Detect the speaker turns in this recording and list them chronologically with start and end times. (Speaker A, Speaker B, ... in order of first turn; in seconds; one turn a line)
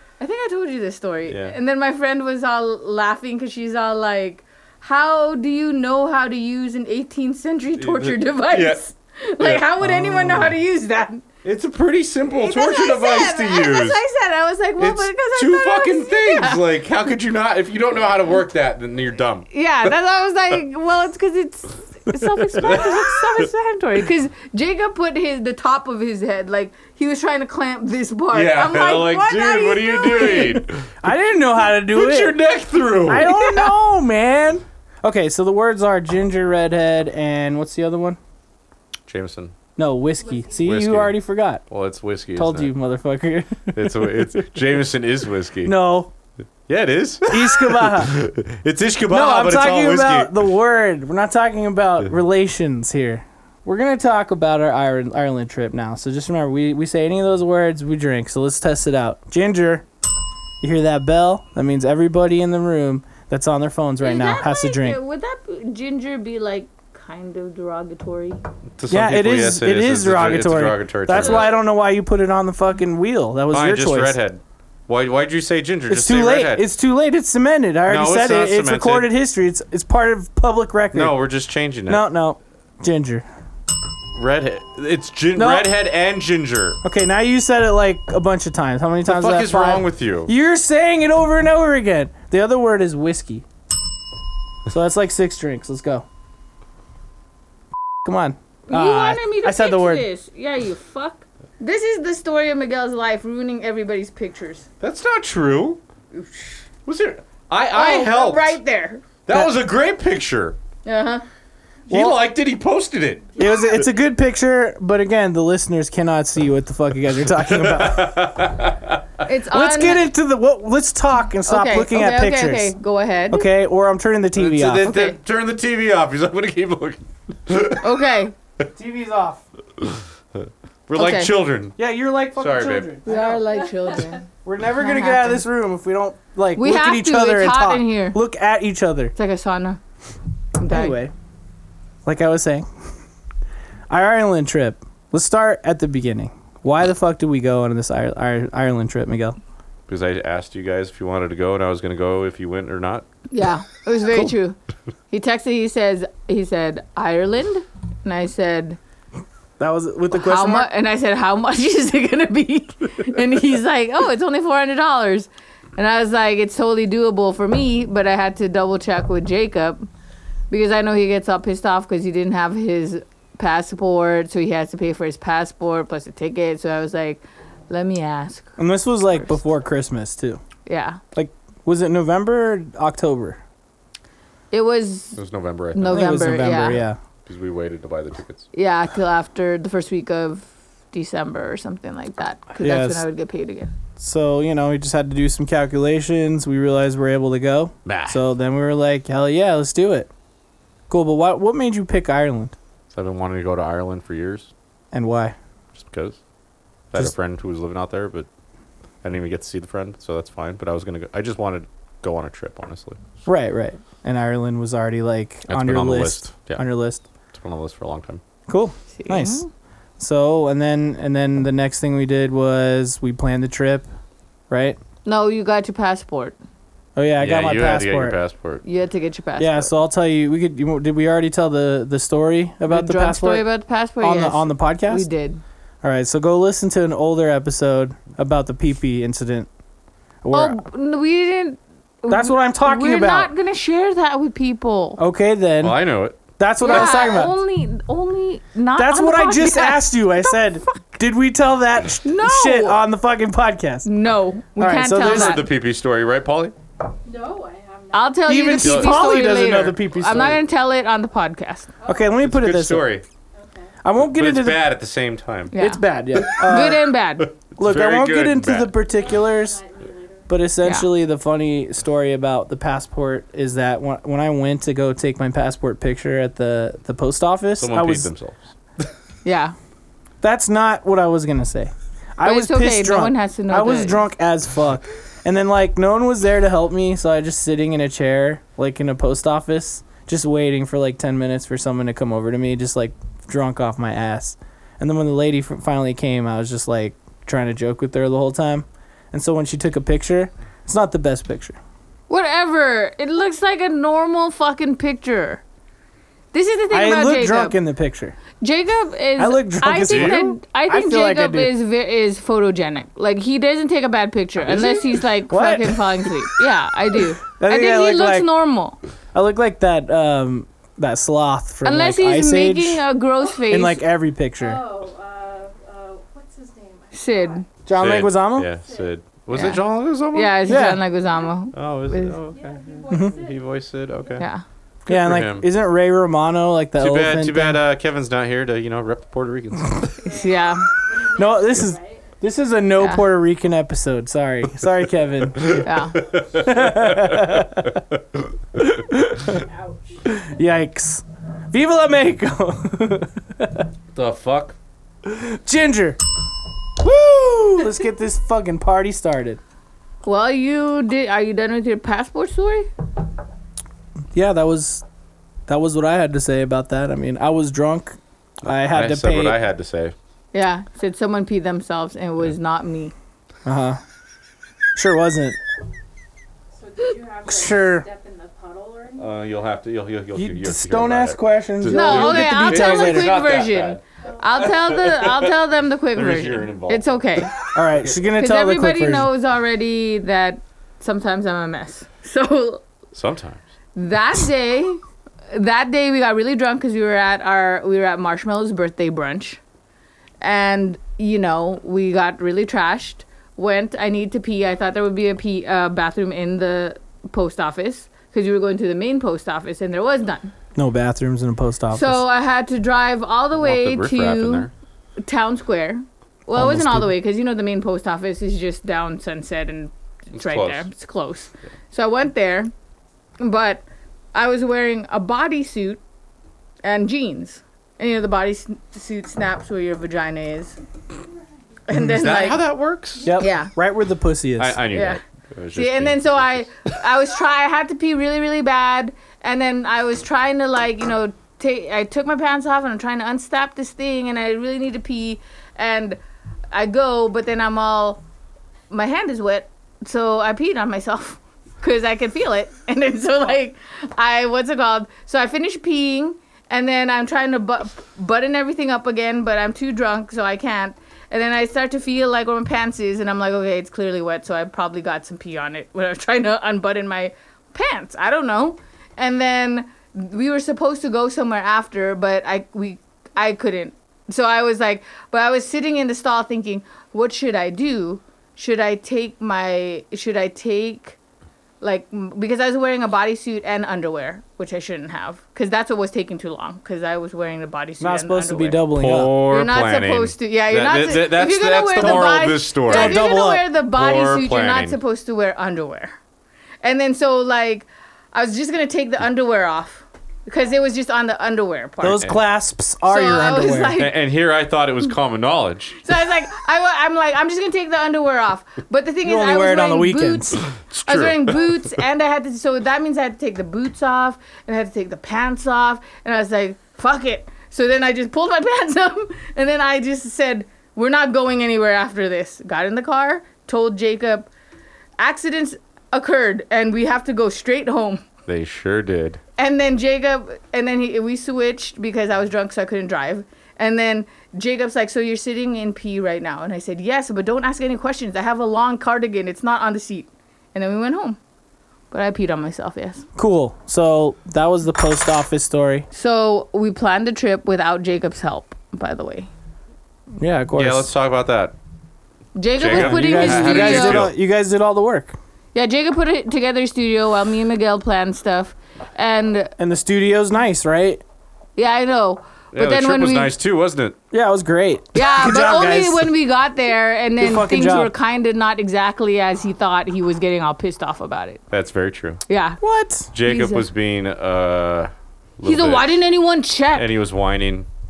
Speaker A: 0.2-11.2
Speaker B: 1.3-1.6
Speaker B: 7.8-8.8
Speaker B: 9.4-10.6
Speaker B: 11.4-14.0
Speaker A: 12.3-16.6
Speaker B: 14.8-19.9
Speaker A: 19.5-30.6
Speaker C: 22.2-22.8
Speaker B: 22.6-23.1
Speaker B: 28.3-31.2
Speaker C: 31.0-32.4
Speaker B: 31.8-33.7
Speaker C: 33.1-38.2
Speaker B: 39.1-39.5
Speaker C: 39.8-41.6
Speaker D: 40.2-40.5
Speaker B: 40.6-41.2
Speaker B: 41.7-42.7
Speaker C: 42.4-44.3
Speaker B: 43.7-45.8
Speaker C: 45.6-46.1
Speaker B: 46.7-50.4
Speaker C: 47.3-48.1
Speaker C: 49.1-59.9
Speaker C: 60.6-65.0
Speaker A: 64.0-68.4
Speaker B: 68.8-71.6
Speaker C: 68.9-74.2
Speaker A: 71.1-71.5
Speaker B: 73.5-76.7
Speaker C: 75.9-81.2
Speaker B: 77.9-79.1
Speaker B: 80.9-82.1
Speaker C: 81.9-83.3
Speaker B: 84.2-86.8
Speaker C: 85.3-85.7
Speaker C: 86.8-93.5
Speaker B: 89.1-90.3
Speaker C: 94.7-96.1
Speaker C: 98.0-100.1
Speaker A: 98.7-104.7
Speaker B: 104.8-105.8
Speaker A: 106.1-106.6
Speaker B: 106.9-108.6
Speaker A: 107.7-109.0
Speaker B: 109.2-110.6
Speaker A: 110.8-111.2
Speaker C: 111.9-112.2
Speaker B: 111.9-113.3
Speaker C: 113.4-118.3
Speaker B: 117.4-119.0
Speaker A: 119.2-120.0
Speaker C: 119.5-122.7
Speaker A: 121.5-123.5
Speaker C: 123.3-124.9
Speaker B: 124.3-127.9
Speaker A: 124.8-125.2
Speaker A: 127.8-128.3
Speaker C: 128.7-129.4
Speaker B: 129.8-131.8
Speaker A: 130.9-131.3
Speaker C: 131.8-133.4
Speaker B: 132.4-133.0
Speaker A: 133.1-134.3
Speaker C: 134.4-139.1
Speaker A: 134.8-135.4
Speaker A: 136.6-138.2
Speaker A: 139.2-139.8
Speaker A: 140.6-141.0
Speaker C: 140.7-141.1
Speaker C: 142.1-142.7
Speaker C: 143.9-149.4
Speaker B: 149.9-153.1
Speaker A: 153.3-154.6
Speaker A: 155.1-158.8
Speaker C: 159.6-160.7
Speaker A: 160.1-169.9
Speaker A: 170.5-178.6
Speaker C: 178.6-180.4
Speaker A: 180.7-181.0
Speaker C: 181.1-183.4
Speaker A: 184.5-185.2
Speaker B: 185.2-186.3
Speaker A: 185.7-186.8
Speaker C: 185.9-187.0
Speaker B: 187.2-188.5
Speaker A: 188.5-193.7
Speaker C: 192.6-193.0
Speaker C: 194.0-200.1
Speaker B: 197.8-198.2
Speaker C: 200.9-202.6
Speaker B: 202.9-204.5
Speaker C: 204.9-205.3
Speaker B: 205.8-206.2
Speaker B: 206.9-208.3
Speaker B: 209.0-213.0
Speaker C: 213.2-217.0
Speaker B: 215.5-216.6
Speaker B: 217.3-218.2
Speaker C: 218.5-219.4
Speaker A: 218.9-219.5
Speaker C: 220.0-223.9
Speaker C: 224.5-224.8
Speaker A: 225.1-226.4
Speaker C: 227.0-228.2
Speaker B: 227.2-228.6
Speaker A: 228.6-229.7
Speaker C: 229.4-233.4
Speaker A: 232.7-235.4
Speaker C: 234.0-235.1
Speaker C: 235.8-239.5
Speaker C: 240.2-240.6
Speaker A: 240.3-245.0
Speaker C: 242.1-243.3
Speaker C: 245.0-245.8
Speaker B: 245.6-246.2
Speaker C: 246.4-247.3
Speaker A: 246.6-250.8
Speaker C: 248.8-253.9
Speaker A: 252.1-252.8
Speaker A: 253.9-255.5
Speaker C: 254.6-255.4
Speaker B: 255.0-256.5
Speaker D: 257.1-258.4
Speaker A: 257.9-261.7
Speaker C: 258.3-260.4
Speaker B: 258.6-260.3
Speaker D: 261.8-262.2
Speaker C: 261.9-262.9
Speaker B: 262.2-263.0
Speaker D: 263.4-263.7
Speaker C: 263.8-264.7
Speaker B: 264.0-265.5
Speaker A: 265.5-265.8
Speaker C: 265.5-266.9
Speaker B: 266.1-268.7
Speaker A: 266.4-267.3
Speaker C: 267.6-269.6
Speaker D: 268.8-270.3
Speaker C: 270.3-278.1
Speaker B: 277.6-278.5
Speaker A: 279.2-279.6
Speaker C: 280.2-301.6
Speaker A: 282.2-284.0
Speaker A: 302.1-305.4
Speaker A: 306.3-307.6
Speaker C: 306.7-308.2
Speaker A: 308.4-318.8
Speaker C: 309.2-311.5
Speaker B: 309.8-310.3
Speaker B: 314.5-314.8
Speaker C: 315.3-316.1
Speaker C: 317.4-318.3
Speaker C: 319.1-322.8
Speaker A: 321.6-323.8
Speaker C: 323.4-324.6
Speaker D: 324.4-327.4
Speaker A: 326.9-327.4
Speaker C: 327.7-328.5
Speaker B: 327.7-330.4
Speaker D: 328.7-328.9
Speaker A: 329.3-329.6
Speaker A: 330.1-332.2
Speaker C: 330.5-330.8
Speaker B: 331.5-334.2
Speaker D: 332.3-333.5
Speaker C: 332.9-333.1
Speaker A: 334.2-334.4
Speaker C: 334.9-337.6
Speaker B: 334.9-335.5
Speaker B: 336.8-340.0
Speaker D: 340.0-342.1
Speaker A: 340.1-340.7
Speaker C: 341.1-345.7
Speaker A: 342.8-343.1
Speaker B: 345.4-347.5
Speaker A: 345.6-346.0
Speaker C: 346.3-347.8
Speaker C: 348.6-349.4
Speaker D: 349.2-350.3
Speaker C: 350.1-353.7
Speaker B: 353.9-354.6
Speaker C: 355.0-356.0
Speaker C: 356.8-359.4
Speaker A: 360.0-362.7
Speaker C: 364.1-364.9
Speaker C: 365.5-369.4
Speaker B: 368.6-369.9
Speaker A: 370.3-372.9
Speaker C: 373.4-373.8
Speaker C: 374.8-375.4
Speaker D: 376.5-379.1
Speaker C: 377.3-377.9
Speaker B: 379.0-383.8
Speaker C: 380.2-383.1
Speaker A: 381.7-387.4
Speaker D: 384.1-384.5
Speaker B: 384.4-385.3
Speaker B: 385.9-387.5
Speaker C: 387.5-389.1
Speaker A: 388.2-392.6
Speaker B: 392.9-393.4
Speaker A: 393.8-394.8
Speaker A: 395.3-399.4
Speaker A: 400.2-410.3
Speaker C: 410.6-412.0
Speaker A: 411.7-414.5
Speaker B: 413.4-414.5
Speaker A: 415.0-422.5
Speaker C: 416.4-416.9
Speaker B: 420.1-420.7
Speaker A: 423.2-425.8
Speaker A: 426.6-430.6
Speaker A: 431.7-432.4
Speaker B: 431.9-433.1
Speaker C: 433.0-434.6
Speaker A: 433.2-433.5
Speaker B: 434.4-436.4
Speaker A: 434.7-435.0
Speaker A: 435.6-446.0
Speaker A: 446.5-448.0
Speaker A: 448.7-481.0
Speaker A: 481.6-488.6
Speaker C: 487.8-489.1
Speaker B: 488.8-493.0
Speaker A: 489.3-495.9
Speaker C: 491.8-493.4
Speaker B: 493.6-494.8
Speaker A: 496.6-502.1
Speaker C: 501.8-503.8
Speaker A: 502.9-503.9
Speaker B: 503.8-505.8
Speaker A: 505.8-524.3
Speaker C: 509.1-510.4
Speaker B: 510.5-511.6
Speaker A: 525.0-528.0
Speaker B: 528.3-529.2
Speaker A: 529.4-541.2
Speaker A: 541.9-543.0
Speaker C: 543.2-545.9
Speaker A: 545.9-549.3
Speaker C: 550.2-550.9
Speaker B: 550.5-551.6
Speaker A: 552.4-554.1
Speaker B: 552.6-554.1
Speaker C: 552.7-555.2
Speaker A: 555.5-559.5
Speaker C: 559.6-561.0
Speaker A: 561.6-563.3
Speaker B: 562.5-564.0
Speaker C: 564.1-566.1
Speaker A: 565.0-571.4
Speaker C: 567.2-567.9
Speaker B: 571.5-572.2
Speaker A: 572.3-572.6
Speaker C: 572.6-573.1
Speaker B: 573.1-576.0
Speaker A: 573.2-573.7
Speaker A: 575.4-576.9
Speaker B: 576.8-577.7